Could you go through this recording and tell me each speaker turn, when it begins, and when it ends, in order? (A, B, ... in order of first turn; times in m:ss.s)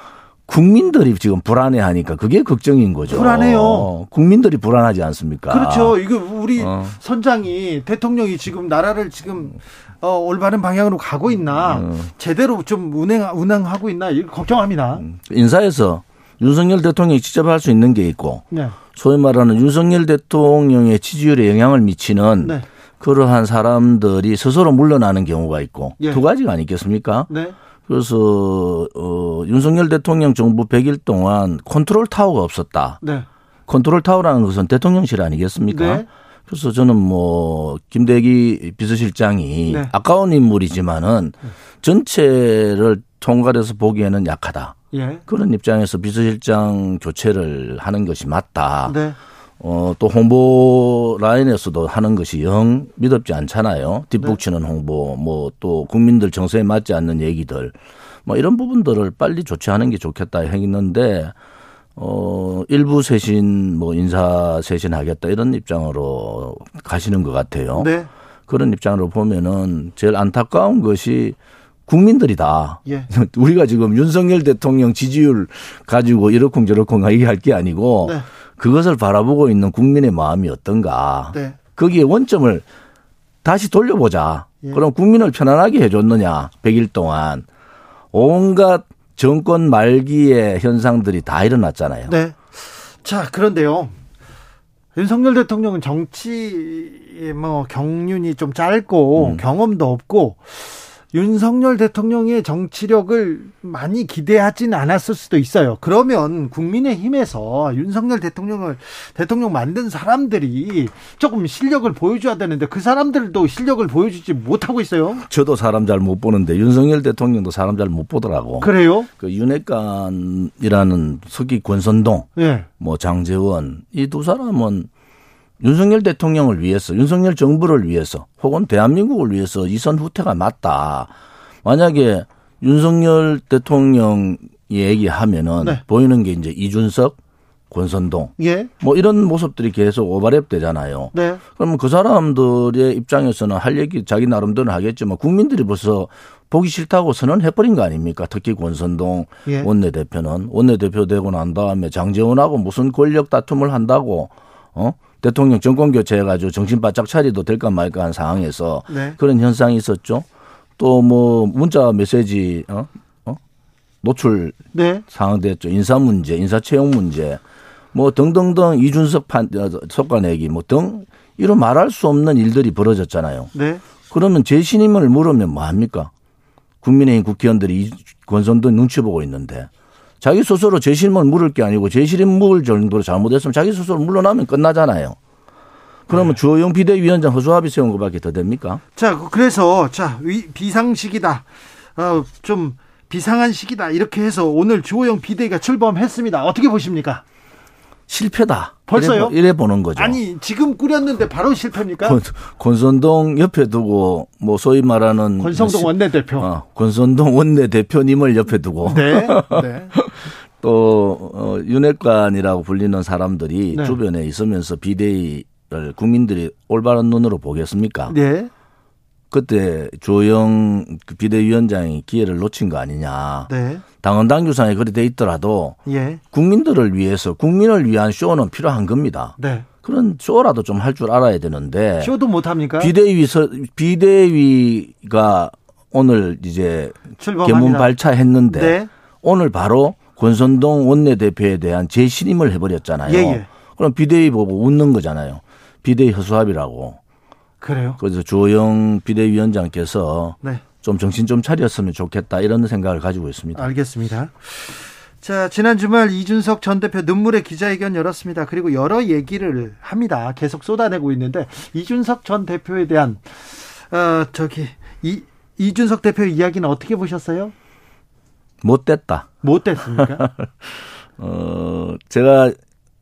0:00.5-0:06.0 A
0:03.1-0:03.9 B
0:05.5-0:15.1 B
0:06.6-0:07.0 A
0:11.5-0:12.1 A
0:15.0-0:18.4 A
0:18.5-0:18.8 B
0:19.0-0:27.3 A
0:27.3-0:27.6 B
0:27.9-0:33.0 A
0:33.0-0:33.3 B
0:33.7-0:44.8 A
0:35.7-0:36.1 B
0:39.7-0:39.9 B
0:44.9-0:45.2 B
0:45.3-0:49.0 A
0:48.9-0:49.2 B
0:49.6-1:01.3 A
1:02.0-1:07.9 A
1:07.8-1:08.1 B
1:08.5-1:11.4 A
1:11.9-1:22.6 A
1:23.4-1:27.4 A
1:28.1-1:32.1 A
1:32.1-1:34.0 B
1:35.0-1:55.3 B
1:39.2-1:39.4 A
1:55.2-2:02.3 A
1:58.6-1:59.1 B
2:02.4-2:02.7 B
2:02.8-2:04.9 A
2:05.6-2:11.1 A
2:11.6-2:17.2 A
2:17.7-2:40.2 A
2:18.4-2:18.7 B
2:21.1-2:21.4 B
2:38.9-2:39.2 B
2:40.8-2:43.4 A
2:44.0-2:44.6 A
2:44.7-2:45.0 B
2:45.1-2:47.4 A
2:47.9-2:53.5 A
2:53.5-2:53.8 B
2:54.1-2:56.1 A
2:56.8-2:59.7 A
3:00.2-3:05.2 A
3:06.1-3:08.8 A
3:06.1-3:06.4 B
3:09.0-3:17.2 B
3:18.1-3:20.2 A
3:18.9-3:19.4 B
3:19.9-3:22.2 B
3:22.0-3:38.2 A
3:25.4-3:26.5 B
3:28.8-3:29.9 B
3:33.7-3:34.0 B
3:38.1-3:38.5 B
3:39.3-3:43.5 A
3:43.5-3:43.8 B
3:44.0-3:45.8 A
3:45.9-3:46.2 B
3:46.3-3:52.1 A
3:49.4-3:49.7 B
3:52.0-3:52.9 B
3:52.8-4:07.0 A
3:57.2-3:57.9 B
3:58.5-3:58.9 B
4:03.0-4:03.5 B
4:07.6-4:08.0 B
4:08.0-4:13.7 A
4:13.6-4:27.5 B
4:28.6-4:29.4 A
4:29.4-4:30.3 B
4:30.0-4:32.6 A